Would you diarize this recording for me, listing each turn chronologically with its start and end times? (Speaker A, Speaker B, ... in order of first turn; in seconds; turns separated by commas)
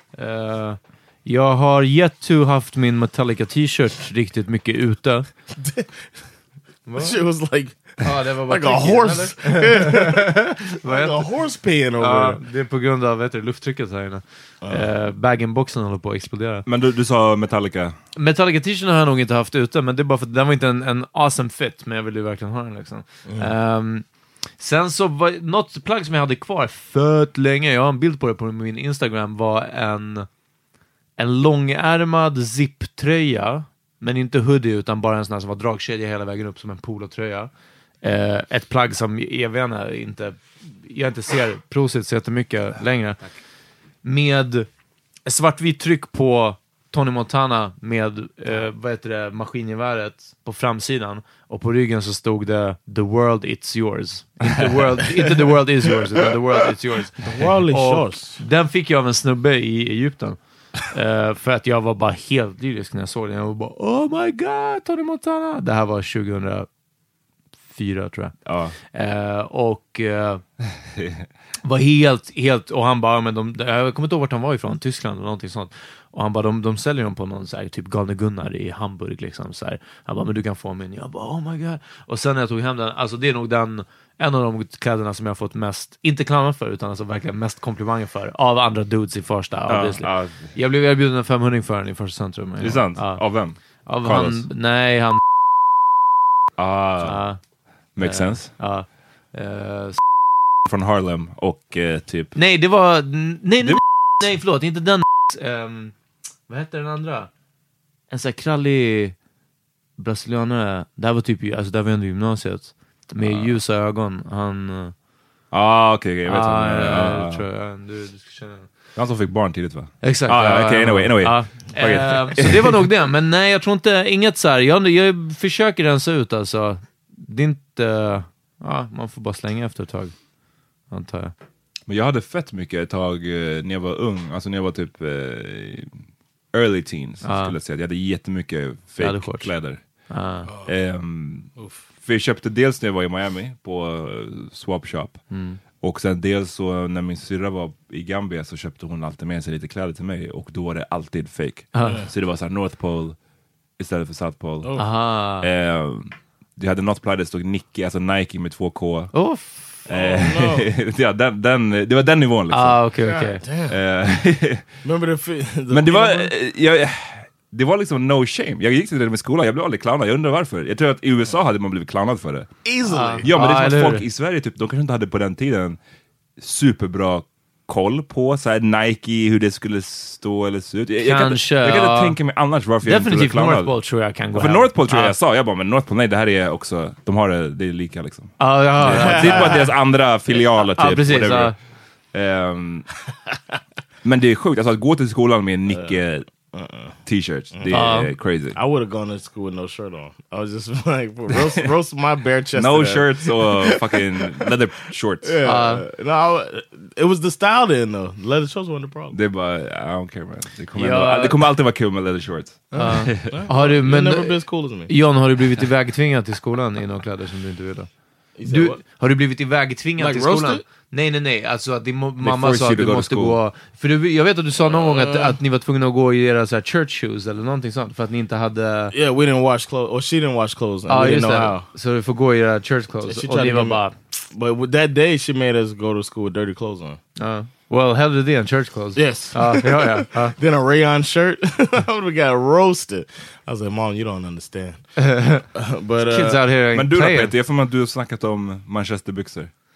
Speaker A: 0.1-5.2, Speaker B: 5.6-5.9, Speaker A: 6.8-7.2, Speaker B: 7.0-12.4, Speaker A: 8.0-11.2, Speaker A: 12.0-16.6, Speaker B: 14.6-14.9, Speaker C: 16.6-17.9, Speaker A: 18.1-24.0, Speaker A: 24.6-30.2, Speaker A: 31.2-37.5, Speaker A: 38.0-43.2, Speaker A: 44.0-44.7, Speaker A: 45.2-60.4, Speaker B: 57.2-58.4, Speaker A: 60.9-66.7, Speaker A: 67.7-68.3, Speaker C: 68.5-68.7, Speaker A: 68.9-70.4, Speaker C: 71.0-71.2, Speaker A: 71.6-93.2, Speaker C: 89.7-90.5, Speaker C: 92.6-94.4, Speaker A: 93.8-95.2, Speaker C: 96.6-97.2, Speaker A: 97.0-97.4, Speaker C: 98.0-98.5, Speaker A: 98.0-100.0, Speaker C: 100.7-102.3, Speaker A: 102.3-105.9, Speaker A: 106.5-107.3, Speaker A: 108.1-109.1, Speaker A: 110.0-114.9, Speaker C: 113.2-113.5, Speaker C: 115.5-117.4, Speaker A: 116.3-118.7, Speaker C: 119.0-122.8, Speaker A: 120.0-130.2, Speaker A: 130.9-131.3, Speaker C: 131.9-135.9, Speaker C: 136.5-139.8, Speaker A: 137.2-137.5, Speaker A: 139.0-139.5, Speaker A: 140.1-140.5, Speaker C: 140.6-145.2, Speaker B: 141.6-141.8, Speaker A: 145.3-145.6, Speaker C: 145.8-153.2, Speaker A: 151.7-152.0, Speaker B: 151.8-152.1, Speaker C: 153.8-154.7, Speaker A: 154.8-155.5, Speaker C: 155.4-159.1, Speaker A: 159.1-159.9, Speaker C: 159.9-162.8, Speaker B: 159.9-160.6, Speaker A: 162.5-163.4, Speaker B: 163.0-163.8, Speaker C: 163.7-164.6, Speaker B: 164.8-166.3, Speaker C: 165.7-172.5, Speaker B: 172.6-173.3, Speaker A: 172.8-174.0, Speaker C: 173.2-175.8, Speaker C: 176.4-183.7, Speaker A: 181.0-182.2, Speaker A: 182.8-185.1, Speaker C: 184.3-191.6, Speaker A: 188.4-189.6, Speaker B: 188.8-189.7, Speaker A: 190.8-191.5, Speaker C: 192.1-192.9, Speaker C: 194.0-196.3, Speaker B: 195.7-196.0, Speaker B: 196.5-197.0, Speaker C: 197.0-198.6, Speaker B: 197.5-197.8, Speaker A: 197.7-198.1, Speaker B: 198.5-204.4, Speaker C: 201.3-201.6, Speaker C: 202.6-205.3, Speaker B: 205.2-209.1, Speaker A: 205.4-205.8, Speaker C: 209.1-213.3, Speaker A: 210.7-211.4, Speaker A: 212.7-217.9, Speaker B: 212.7-214.9, Speaker B: 218.4-218.8, Speaker A: 218.5-228.9, Speaker B: 220.0-220.6, Speaker C: 222.2-223.4, Speaker B: 224.7-225.4, Speaker B: 228.9-231.7, Speaker A: 230.9-233.9, Speaker B: 233.0-237.0, Speaker A: 237.2-240.3, Speaker B: 238.9-244.8, Speaker A: 245.0-245.4, Speaker B: 245.5-246.4, Speaker A: 246.0-247.3, Speaker C: 246.7-249.5